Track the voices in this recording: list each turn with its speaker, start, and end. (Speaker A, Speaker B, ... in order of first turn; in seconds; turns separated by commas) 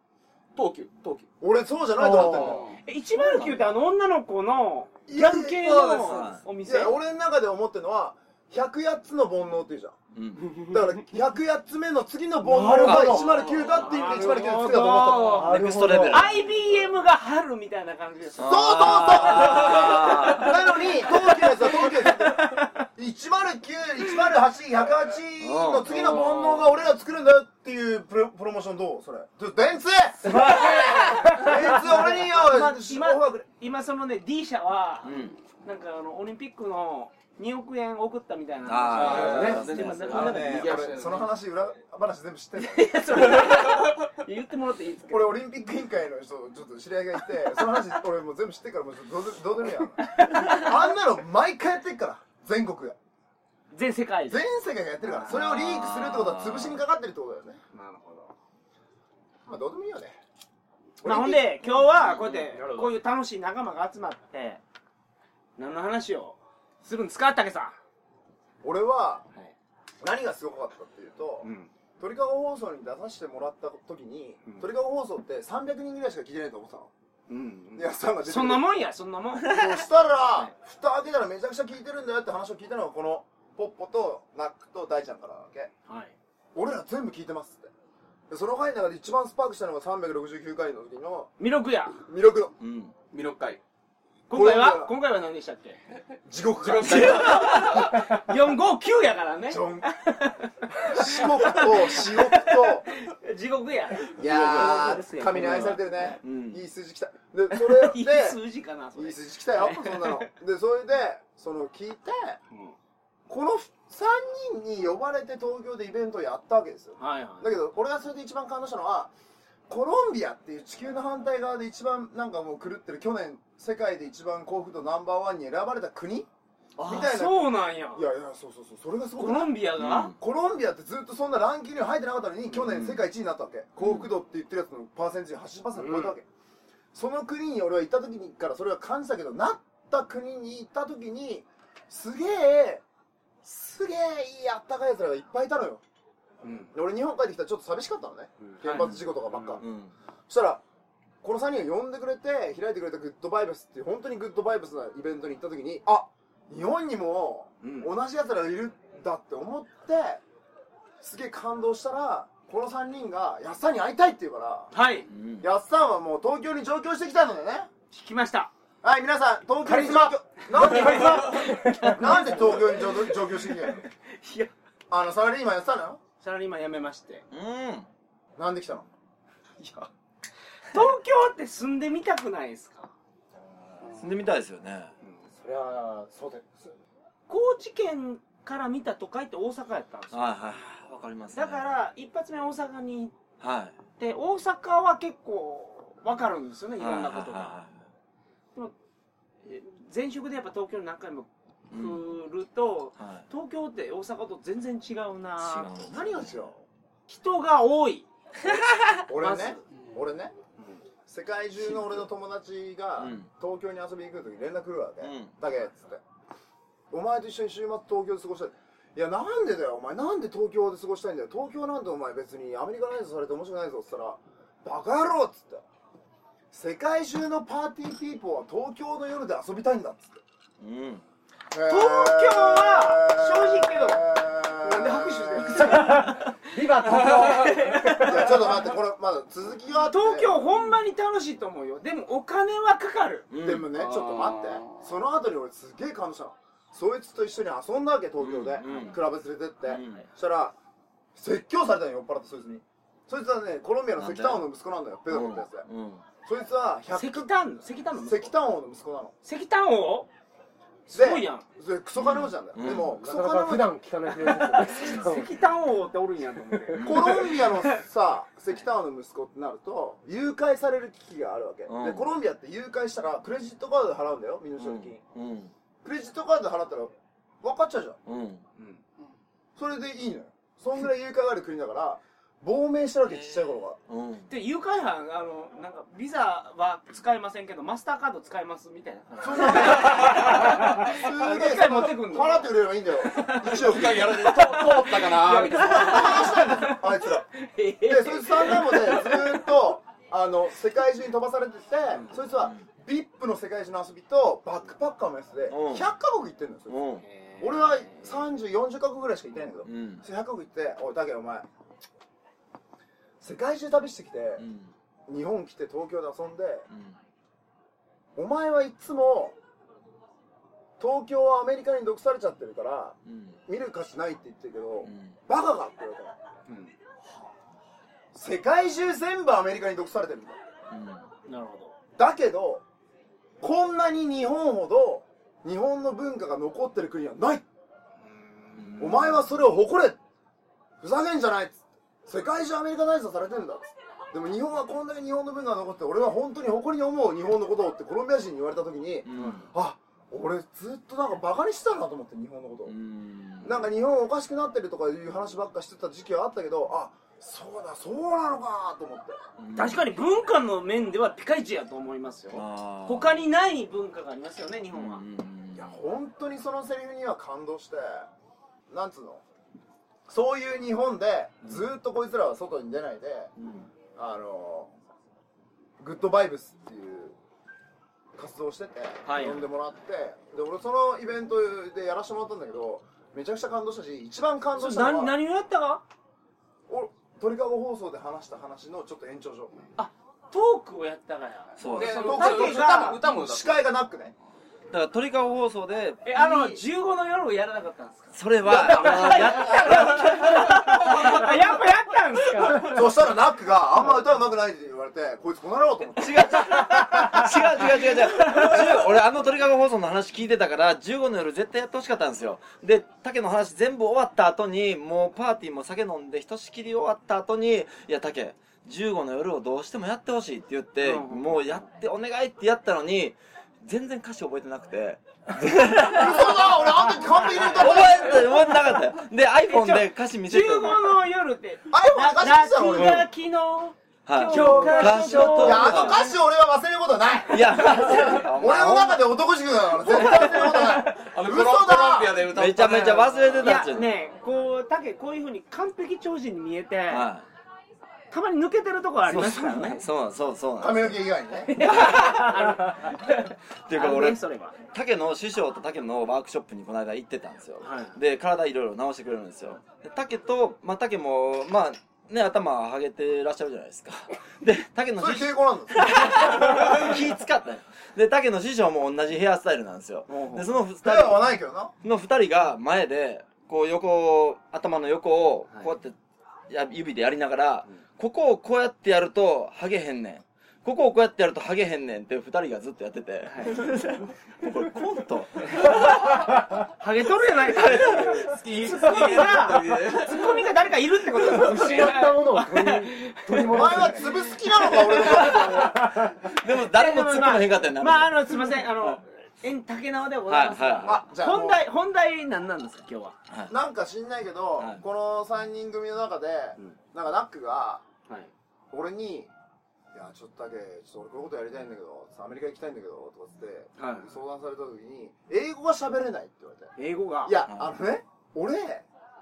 Speaker A: 0.5-1.3, Speaker B: 1.4-2.7, Speaker C: 2.0-2.6, Speaker A: 2.2-2.8, Speaker D: 2.8-7.0, Speaker E: 3.2-3.7, Speaker B: 5.1-9.9, Speaker E: 6.0-6.4, Speaker E: 10.1-10.6, Speaker B: 10.5-16.0, Speaker C: 12.4-13.2, Speaker E: 12.7-13.9, Speaker D: 13.2-15.5, Speaker C: 14.2-16.2, Speaker E: 15.4-16.5, Speaker D: 16.1-22.8, Speaker E: 18.4-20.6, Speaker B: 18.4-33.4, Speaker E: 25.4-26.7, Speaker E: 30.2-31.4, Speaker D: 30.9-40.8, Speaker E: 35.0-35.4, Speaker E: 38.6-40.6, Speaker A: 38.9-41.3, Speaker C: 39.1-39.6, Speaker B: 40.1-43.4, Speaker D: 42.6-45.4, Speaker B: 45.1-53.0, Speaker D: 50.0-50.7, Speaker D: 53.7-54.4, Speaker B: 54.3-57.6, Speaker D: 55.0-55.4, Speaker E: 55.3-56.8, Speaker D: 57.7-58.3, Speaker B: 59.4-60.2, Speaker B: 61.0-61.5, Speaker D: 61.0-64.6, Speaker E: 61.8-62.7, Speaker D: 65.6-67.8, Speaker B: 68.6-69.2, Speaker B: 70.0-71.5, Speaker D: 71.4-71.7, Speaker B: 72.0-76.9, Speaker D: 77.3-80.5, Speaker B: 77.7-78.7, Speaker B: 79.4-85.7, Speaker D: 85.9-86.1, Speaker B: 86.5-87.7, Speaker B: 88.3-91.3, Speaker D: 91.4-92.0, Speaker B: 92.1-92.5, Speaker E: 92.6-92.9, Speaker A: 93.1-93.6, Speaker D: 94.3-95.8, Speaker B: 94.3-94.9, Speaker B: 96.2-97.3, Speaker A: 96.6-97.8, Speaker D: 96.9-106.1, Speaker E: 96.9-97.9, Speaker B: 99.5-99.9, Speaker B: 100.9-102.9, Speaker B: 104.2-108.4, Speaker E: 104.2-105.7, Speaker E: 106.2-106.6, Speaker D: 107.5-110.3, Speaker B: 109.0-112.4, Speaker B: 113.3-119.1, Speaker D: 117.0-117.5, Speaker B: 119.7-129.5, Speaker D: 126.8-128.1, Speaker D: 129.2-130.1, Speaker E: 129.8-130.2, Speaker B: 130.2-136.2, Speaker E: 132.6-133.0, Speaker E: 133.8-134.1, Speaker D: 135.8-136.1, Speaker B: 136.9-142.8, Speaker B: 143.4-145.8, Speaker D: 146.4-146.7, Speaker B: 146.7-149.6, Speaker D: 148.4-149.6, Speaker E: 148.7-149.9, Speaker B: 150.3-150.6, Speaker B: 151.2-160.2, Speaker D: 157.6-157.9, Speaker B: 161.0-164.7, Speaker D: 164.7-165.1, Speaker E: 165.1-165.4, Speaker B: 165.4-167.7, Speaker D: 167.9-168.5, Speaker B: 168.8-173.8, Speaker D: 169.6-174.5, Speaker B: 174.9-176.0, Speaker D: 176.2-177.2, Speaker E: 177.3-177.9, Speaker B: 178.3-178.9, Speaker D: 179.6-179.9, Speaker D: 180.7-182.9, Speaker E: 184.0-184.9, Speaker C: 185.3-186.8, Speaker D: 187.3-190.2, Speaker E: 190.1-191.6, Speaker D: 191.3-193.1, Speaker E: 193.4-193.8, Speaker D: 194.0-197.6, Speaker E: 196.8-197.8, Speaker D: 199.4-206.5, Speaker E: 201.7-202.0, Speaker E: 203.0-203.3, Speaker E: 205.4-206.5, Speaker D: 207.1-208.6, Speaker E: 208.5-209.0, Speaker B: 209.1-210.3, Speaker D: 209.1-209.6, Speaker D: 210.6-210.8, Speaker B: 211.1-216.0, Speaker E: 211.6-212.0, Speaker E: 213.0-213.3, Speaker E: 215.0-215.3, Speaker B: 216.9-225.6, Speaker B: 226.5-230.2, Speaker E: 230.6-231.0, Speaker B: 231.5-236.0, Speaker D: 231.7-238.4, Speaker C: 235.6-238.5, Speaker A: 237.2-237.5, Speaker B: 238.0-240.3, Speaker D: 239.9-243.3, Speaker E: 243.3-243.7, Speaker B: 243.4-250.6, Speaker A: 243.8-244.8, Speaker E: 248.2-249.0, Speaker D: 248.7-248.9, Speaker E: 249.6-250.0, Speaker B: 251.1-255.7, Speaker E: 254.0-254.4, Speaker E: 255.1-256.0, Speaker B: 256.2-257.3, Speaker D: 256.9-258.4, Speaker B: 258.0-259.1, Speaker D: 259.2-260.1, Speaker D: 260.9-261.4, Speaker B: 260.9-263.8, Speaker E: 261.9-262.9, Speaker C: 262.8-265.3, Speaker D: 264.2-267.8, Speaker E: 266.7-267.3, Speaker B: 266.8-275.0, Speaker E: 271.7-272.1, Speaker E: 274.6-275.5, Speaker B: 275.8-278.0, Speaker E: 278.1-278.4, Speaker B: 279.6-283.8, Speaker E: 283.9-284.3, Speaker D: 284.3-292.5, Speaker B: 289.2-294.6, Speaker D: 293.0-299.5, Speaker A: 293.5-296.1, Speaker B: 295.4-297.3, Speaker B: 297.8-306.8, Speaker D: 301.9-302.2, Speaker E: 302.2-302.6, Speaker E: 305.5-305.9, Speaker E: 306.7-307.0, Speaker D: 307.0-308.2, Speaker B: 307.4-311.5, Speaker E: 309.6-310.0, Speaker B: 313.2-314.4, Speaker E: 314.4-314.7, Speaker B: 315.1-316.7, Speaker E: 316.7-316.9, Speaker B: 318.1-319.4, Speaker B: 320.8-326.2, Speaker E: 323.1-323.4, Speaker E: 324.8-325.1, Speaker D: 326.5-326.7, Speaker B: 328.1-330.4, Speaker E: 330.7-331.1, Speaker D: 331.3-331.7, Speaker B: 332.0-332.6, Speaker B: 333.4-337.4, Speaker D: 338.1-338.8, Speaker E: 338.6-339.1, Speaker B: 338.8-340.0, Speaker B: 340.8-352.7, Speaker E: 349.0-349.5, Speaker D: 349.1-349.4, Speaker E: 352.6-353.7, Speaker B: 353.4-359.2, Speaker E: 359.4-359.8, Speaker D: 359.5-365.0, Speaker E: 362.3-363.2, Speaker E: 364.7-365.8, Speaker B: 365.5-368.1, Speaker B: 368.7-369.2, Speaker B: 370.1-373.3, Speaker E: 373.4-373.7, Speaker B: 373.9-374.7, Speaker B: 375.8-377.1, Speaker B: 378.1-385.1, Speaker D: 379.1-379.4, Speaker D: 384.6-385.8, Speaker B: 386.7-389.6, Speaker D: 389.8-393.0, Speaker E: 391.6-392.1, Speaker A: 391.7-393.6, Speaker B: 392.0-394.1, Speaker E: 394.7-396.4, Speaker D: 396.0-402.8, Speaker B: 396.2-396.4, Speaker E: 398.1-401.2, Speaker A: 400.9-401.2, Speaker B: 402.6-407.2, Speaker E: 406.0-430.9, Speaker D: 408.2-408.5, Speaker D: 420.8-421.6, Speaker B: 425.7-428.3, Speaker D: 429.5-436.1, Speaker B: 431.7-433.0, Speaker E: 432.7-433.0, Speaker E: 434.1-436.0, Speaker C: 434.3-435.4, Speaker B: 435.4-442.2, Speaker E: 437.3-439.1, Speaker E: 439.9-440.5, Speaker D: 440.0-440.9, Speaker A: 440.9-443.6, Speaker E: 442.3-443.9, Speaker D: 443.4-447.1, Speaker E: 446.9-447.2, Speaker D: 448.1-449.8, Speaker E: 449.0-450.9, Speaker B: 450.6-451.6, Speaker D: 451.5-454.6, Speaker E: 451.6-453.1, Speaker E: 453.7-471.2, Speaker D: 457.6-458.0, Speaker B: 465.0-466.8, Speaker D: 470.1-470.4, Speaker B: 470.8-471.7, Speaker E: 471.8-475.9, Speaker E: 476.5-486.2, Speaker D: 483.2-483.6, Speaker D: 485.5-485.8, Speaker D: 486.8-493.9, Speaker E: 487.5-488.4, Speaker A: 488.1-490.4, Speaker C: 491.2-494.3, Speaker B: 493.5-496.0, Speaker D: 494.6-495.5, Speaker E: 495.0-495.6, Speaker C: 495.6-496.1, Speaker E: 496.2-498.9, Speaker D: 496.3-503.1, Speaker E: 500.3-501.0, Speaker B: 500.8-501.6, Speaker B: 503.5-507.8, Speaker E: 504.6-504.8, Speaker B: 508.7-509.3, Speaker B: 509.9-516.7, Speaker D: 513.8-514.1, Speaker D: 516.8-517.4, Speaker B: 517.2-518.9